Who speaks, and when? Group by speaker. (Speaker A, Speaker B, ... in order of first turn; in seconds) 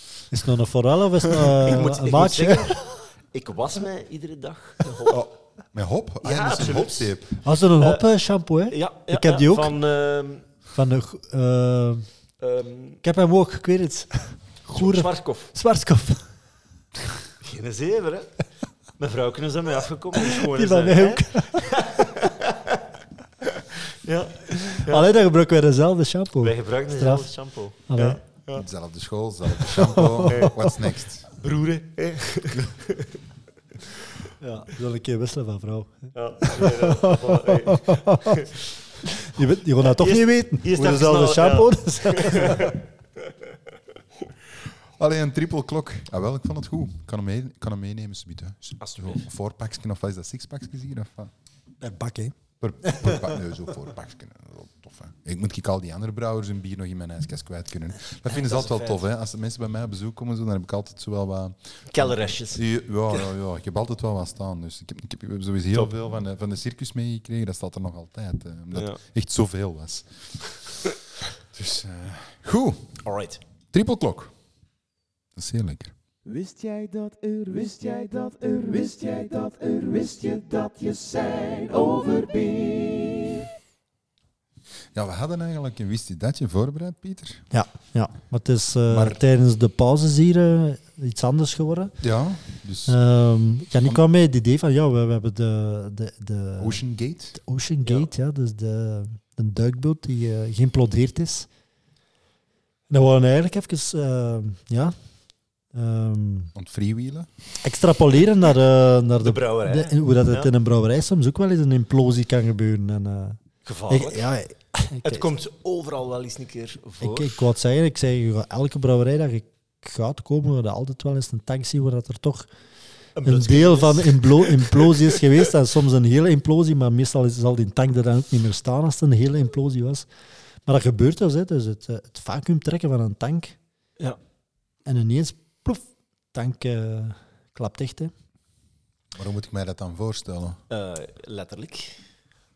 Speaker A: 0.3-2.8, 7.4-9.7, 10.7-12.1, 13.0-16.3, 20.2-22.3, 24.5-27.3, 27.9-28.2, 29.7-30.7, 34.4-38.4, 39.0-42.8, 51.8-53.4, 87.5-92.0, 92.9-96.8, 97.3-101.5, 102.9-104.9, 105.7-106.5, 107.6-113.4, 113.9-115.2, 117.0-122.5, 123.2-130.1, 130.7-133.6, 134.8-138.1
Speaker B: 1.4-5.2, 6.2-7.1, 7.8-8.0, 8.7-10.5, 12.4-13.0, 14.7-15.5, 17.4-18.3, 19.0-22.8, 23.4-25.1, 26.4-28.6, 30.3-30.6, 31.4-33.2, 36.1-38.6, 39.8-43.3, 48.8-49.2, 58.2-59.0, 61.9-63.3, 68.7-69.0, 73.0-73.4, 109.2-110.5, 113.6-114.3, 115.0-117.4, 123.2-125.3, 140.7-142.0
Speaker C: 5.1-7.4, 28.5-31.3, 45.0-51.3, 52.6-70.9, 71.5-73.0, 73.7-74.3, 75.3-75.9, 84.9-87.4, 88.9-89.2, 92.0-93.0, 96.6-97.4, 106.5-107.3, 139.1-140.6
Speaker D: 76.2-83.5